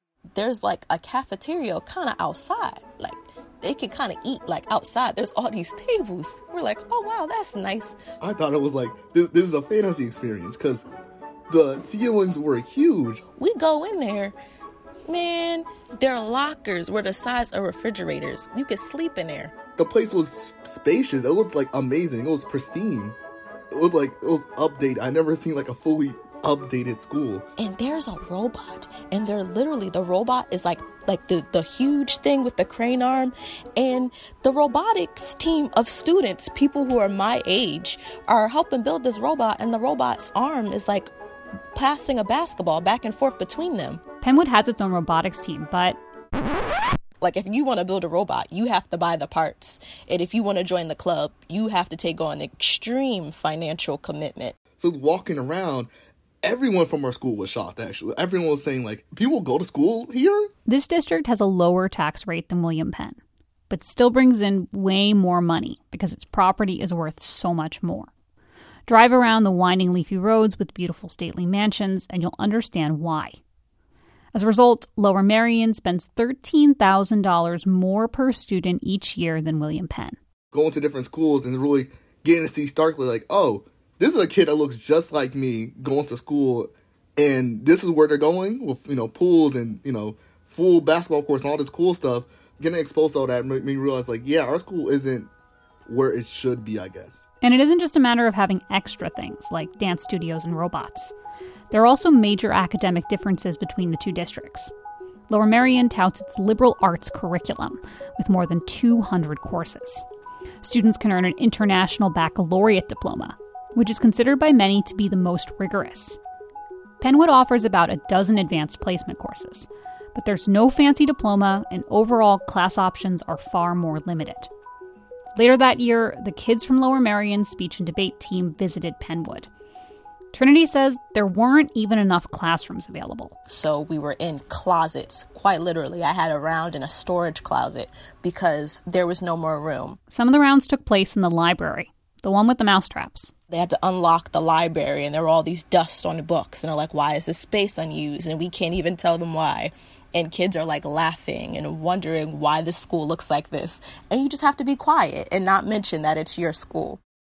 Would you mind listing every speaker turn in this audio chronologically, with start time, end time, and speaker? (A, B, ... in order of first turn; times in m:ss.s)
0:00.4-0:08.0 A
0:08.2-0:10.8 B
0:11.5-0:13.2 B
0:13.4-0:14.4 A
0:15.1-0:19.6 A
0:19.8-0:23.2 B
0:23.7-0:27.4 B
0:27.6-0:41.1 A
0:41.7-0:44.0 A
0:44.2-0:46.0 C
0:47.2-0:54.6 A
0:54.8-0:55.9 B
0:56.4-1:00.5 B
1:00.7-1:03.2 C
1:03.7-1:08.1 C
1:08.9-1:13.4 C
1:14.3-1:20.2 C
1:20.5-1:35.3 B
1:35.9-1:37.2 B
1:37.4-1:41.1 C
1:41.7-1:44.7 C
1:45.3-1:50.1 C
1:50.6-1:56.2 C
1:57.0-2:04.5 C
2:05.4-2:09.5 C
2:10.3-2:13.4 C
2:13.5-2:20.0 A
2:20.1-2:23.3 C
2:23.5-2:37.0 A